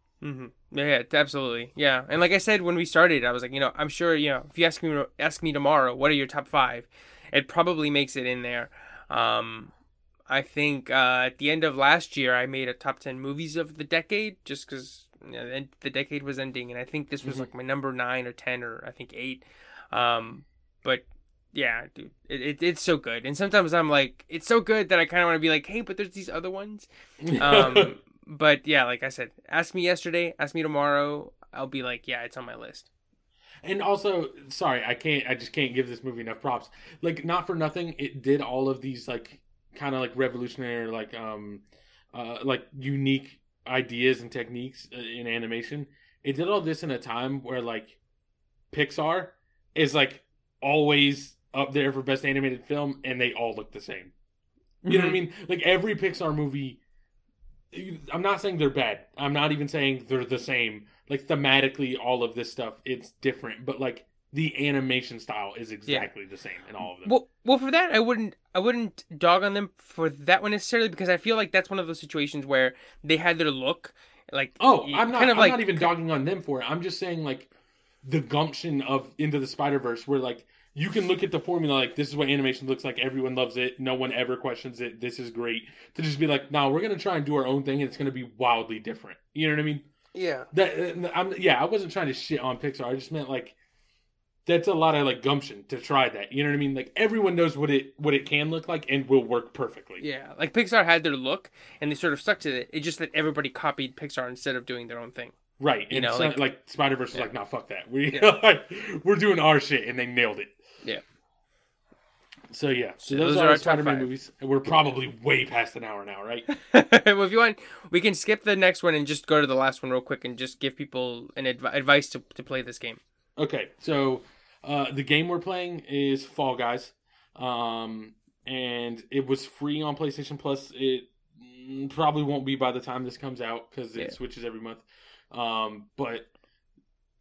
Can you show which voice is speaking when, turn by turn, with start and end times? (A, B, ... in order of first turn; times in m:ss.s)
0:00.2-0:09.7 A
0:10.3-0:32.9 A
0:27.2-0:27.9 B
0:33.6-0:48.0 B
0:48.7-0:54.1 B
0:54.8-0:55.2 A
0:54.9-0:56.8 B
0:57.7-1:07.1 B
1:06.8-1:15.9 A
1:14.6-1:17.5 B
1:18.0-1:29.9 B
1:30.1-1:30.5 A
1:30.5-1:33.6 B
1:34.5-1:40.0 B
1:40.0-1:45.4 A
1:45.6-1:50.6 B
1:45.9-1:46.4 A
1:52.5-1:56.5 B
1:53.0-1:54.1 A
1:56.5-2:03.0 A
2:03.4-2:16.3 B